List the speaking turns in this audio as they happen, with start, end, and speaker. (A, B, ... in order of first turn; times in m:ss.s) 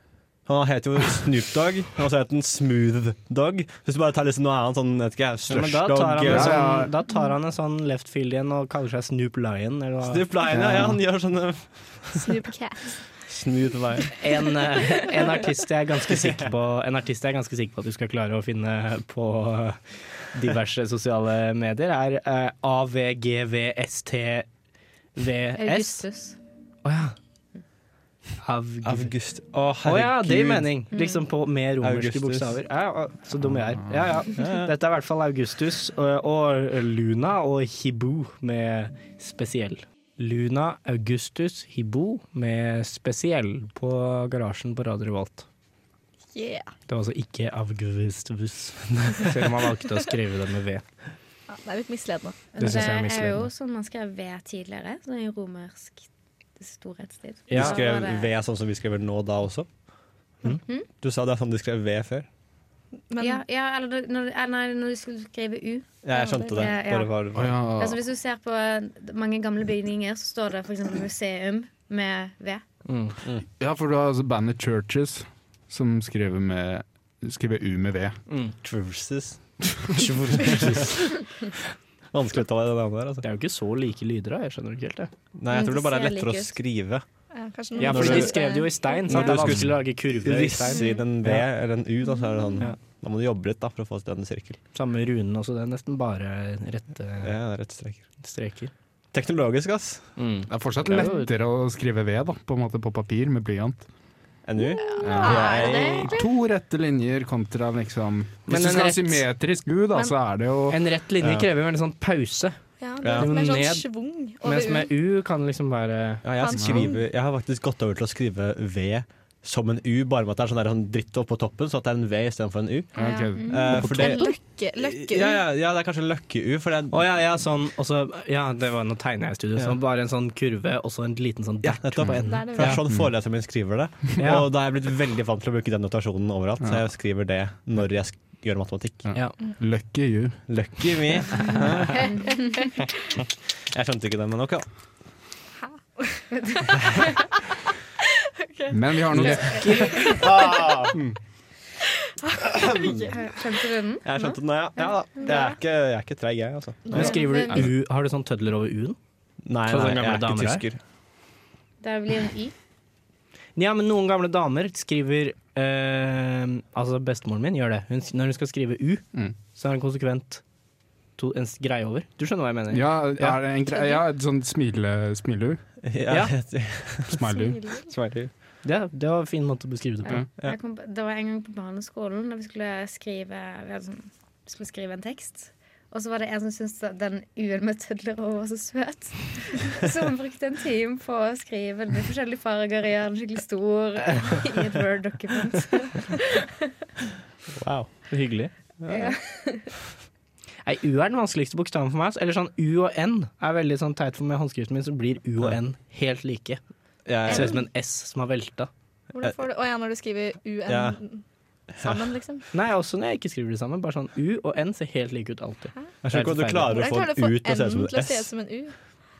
0:00.4-0:06.8 A
0:05.5-0:10.3 B
0:06.2-0:06.9 C
0:10.0-0:12.3 A
0:10.5-0:11.0 C
0:12.1-0:13.0 D
0:13.3-0:14.1 A
0:14.2-0:24.5 B
0:25.2-0:26.0 B
0:25.5-0:26.4 E
0:26.8-0:27.1 B
0:28.4-0:29.1 B
0:28.8-0:30.8 A
0:29.8-0:45.4 B
0:30.9-0:31.2 E
0:31.8-0:32.6 A
0:34.3-0:34.7 A
0:46.3-0:46.7 D
0:46.9-0:50.8 B
0:51.5-0:52.4 D
0:52.5-0:56.1 E
0:52.6-0:53.5 B
0:56.6-0:58.3 E
0:57.5-0:57.8 B
0:57.5-0:59.7 A
1:01.0-1:02.3 A
1:03.1-1:03.4 D
1:03.2-1:06.0 E
1:06.0-1:07.5 A
1:06.1-1:06.7 D
1:06.5-1:07.2 E
1:07.3-1:08.0 C
1:07.8-1:12.6 E
1:12.8-1:13.2 B
1:13.6-1:18.2 C
1:18.3-1:18.5 B
1:18.6-1:19.4 A
1:19.9-1:21.1 A
1:20.0-1:20.9 B
1:22.1-1:23.2 A
1:23.2-1:25.1 B
1:25.3-1:27.0 A
1:25.5-1:26.6 E
1:27.3-1:29.4 D
1:27.8-1:31.4 B
1:27.8-1:28.4 A
1:29.1-1:34.6 A
1:34.7-1:37.4 B
1:37.2-1:38.0 A
1:38.2-1:38.7 B
1:39.1-1:40.1 A
1:40.2-1:41.3 B
1:40.5-1:43.8 C
1:44.4-1:46.2 A
1:44.6-1:46.3 D
1:45.0-1:50.8 C
1:48.4-1:49.3 B
1:50.7-1:53.9 B
1:51.2-1:51.4 A
1:52.8-1:54.9 D
1:53.0-1:53.3 A
1:54.4-1:56.2 B
1:56.2-2:07.0 A
1:56.4-1:57.0 D
1:56.6-1:56.9 C
2:03.0-2:04.3 C
2:03.0-2:05.4 D
2:06.9-2:12.8 B
2:11.6-2:19.1 A
2:12.2-2:12.8 D
2:14.2-2:14.5 B
2:19.1-2:21.2 C
2:20.5-2:22.3 A
2:22.1-2:22.7 D
2:23.6-2:24.7 A
2:25.6-2:26.8 D
2:26.8-2:27.0 A
2:28.1-2:30.8 D
2:28.7-2:29.8 C
2:29.1-2:30.2 B
2:29.9-2:31.2 A
2:32.2-2:33.1 D
2:32.4-2:33.1 A
2:33.1-2:34.3 E
2:34.0-2:37.7 A
2:35.2-2:35.5 E
2:36.9-2:37.7 D
2:36.9-2:39.0 B
2:39.4-2:40.8 A
2:39.6-2:40.6 B
2:41.8-2:42.5 E
2:43.6-2:50.4 B
2:51.2-2:53.4 B
2:52.7-2:55.6 C
2:53.7-2:54.0 D
2:55.8-2:57.2 A
2:56.1-2:56.3 B
2:57.1-2:57.6 C
2:57.2-2:57.9 D
2:57.9-2:58.3 A
2:58.6-3:00.2 B
3:00.0-3:16.5 E
3:17.5-3:18.1 A
3:18.1-3:18.5 B
3:18.8-3:19.1 A
3:18.9-3:19.7 E
3:20.6-3:26.6 B
3:27.0-3:27.5 A
3:27.2-3:28.7 B
3:27.3-3:27.5 D
3:29.1-3:32.4 D
3:30.7-3:31.0 A
3:31.8-3:32.1 A
3:32.5-3:36.8 B
3:36.0-3:38.3 A
3:36.6-3:38.7 D